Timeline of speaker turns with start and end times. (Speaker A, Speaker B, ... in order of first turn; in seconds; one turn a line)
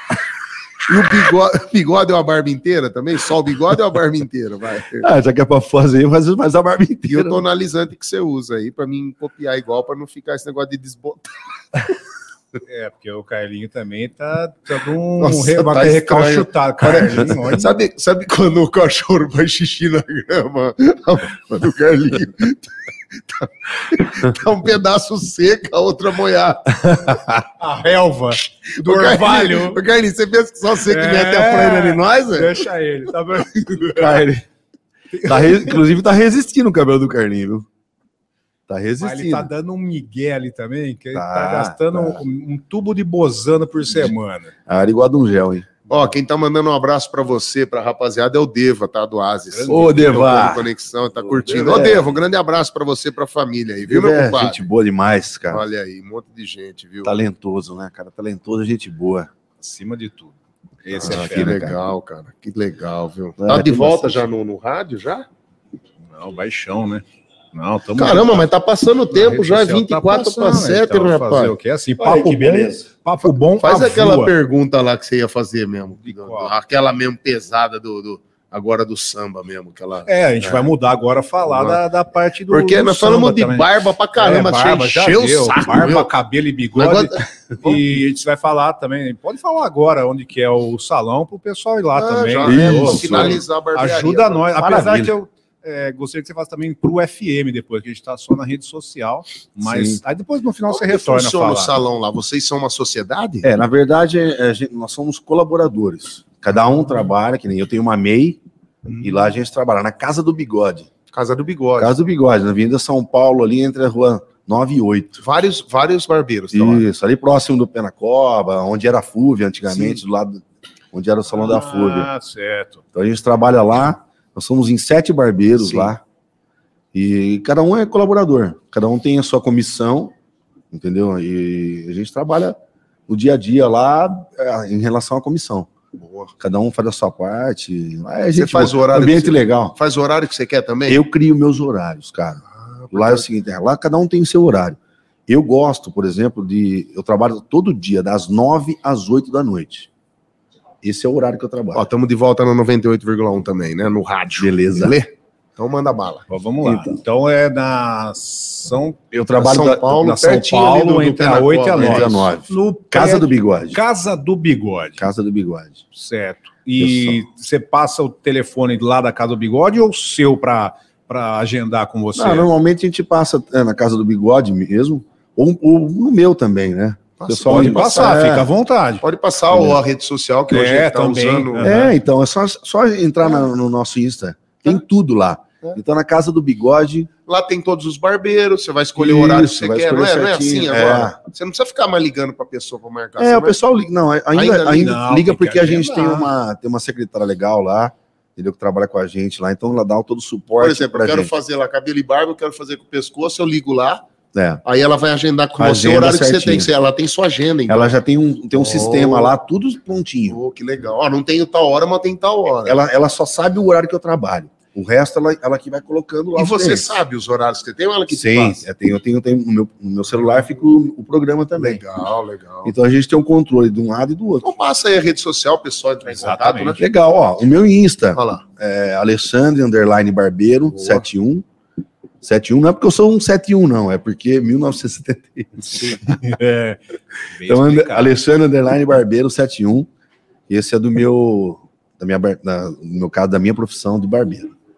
Speaker A: 0.9-5.1
Speaker B: 5.0-7.4
Speaker A: 7.1-11.3
Speaker C: 12.7-17.7
Speaker A: 15.2-22.7
Speaker A: 23.3-27.2
Speaker B: 26.9-27.2
Speaker C: 27.6-29.8
Speaker A: 28.7-32.6
Speaker C: 30.9-34.2
Speaker B: 34.0-34.5
Speaker C: 35.1-35.8
Speaker B: 35.2-37.7
Speaker B: 38.7-39.5
Speaker C: 39.0-44.5
Speaker B: 41.1-42.2
Speaker B: 44.7-45.7
Speaker A: 45.9-54.6
Speaker C: 49.5-50.4
Speaker B: 49.7-50.7
Speaker B: 51.2-52.2
Speaker B: 53.9-55.6
Speaker A: 55.5-57.1
Speaker B: 57.0-59.3
Speaker C: 59.6-61.6
Speaker B: 61.0-61.8
Speaker A: 61.0-65.3
Speaker B: 63.4-64.2
Speaker C: 66.1-68.5
Speaker A: 68.0-71.5
Speaker C: 69.1-74.3
Speaker B: 72.0-72.9
Speaker A: 73.6-80.7
Speaker C: 76.0-76.5
Speaker C: 80.1-101.7
Speaker A: 81.5-81.8
Speaker A: 82.5-86.1
Speaker A: 86.8-87.8
Speaker A: 92.0-94.4
Speaker B: 92.4-93.4
Speaker B: 94.6-95.2
Speaker B: 99.6-100.0
Speaker A: 100.7-103.5
Speaker B: 103.4-108.4
Speaker B: 109.0-110.9
Speaker A: 111.1-111.9
Speaker B: 111.8-115.2
Speaker A: 115.2-116.8
Speaker B: 116.5-122.1
Speaker A: 119.7-120.0
Speaker C: 121.3-122.8
Speaker B: 122.9-126.0
Speaker A: 125.6-125.9
Speaker B: 126.9-130.1
Speaker B: 130.7-135.7
Speaker A: 136.0-136.3
Speaker B: 136.4-139.8
Speaker A: 138.3-141.0
Speaker B: 140.9-149.9
Speaker A: 142.6-143.3
Speaker B: 150.8-151.9
Speaker A: 151.7-156.3
Speaker B: 154.4-155.0
Speaker C: 156.3-159.0
Speaker B: 156.6-157.0
Speaker B: 159.1-160.0
Speaker A: 159.4-162.3
Speaker C: 159.9-165.0
Speaker B: 161.8-163.8
Speaker B: 165.0-165.8
Speaker C: 165.9-172.5
Speaker B: 166.8-167.2
Speaker B: 172.2-178.5
Speaker A: 177.2-178.3
Speaker C: 177.5-179.0
Speaker A: 179.0-181.7
Speaker B: 179.5-179.8
Speaker C: 180.5-181.9
Speaker B: 181.6-187.1
Speaker A: 187.3-193.6
Speaker B: 189.0-191.2
Speaker B: 193.2-201.3
Speaker A: 194.3-195.0
Speaker C: 194.8-196.3
Speaker A: 200.6-204.0
Speaker B: 204.3-204.6
Speaker A: 204.7-208.0
Speaker B: 205.6-206.7
Speaker B: 207.7-210.4
Speaker A: 208.5-209.3
Speaker A: 210.3-212.8
Speaker B: 212.7-217.0
Speaker A: 216.3-218.7
Speaker B: 218.1-221.8
Speaker A: 221.6-222.7
Speaker B: 222.7-224.5
Speaker A: 224.4-226.8
Speaker C: 226.1-226.8
Speaker B: 226.8-231.4
Speaker A: 228.2-228.4
Speaker A: 230.7-231.1
Speaker B: 232.2-236.2
Speaker A: 235.7-236.0
Speaker C: 236.2-236.8
Speaker C: 237.3-238.1
Speaker B: 237.4-239.9
Speaker B: 240.5-244.5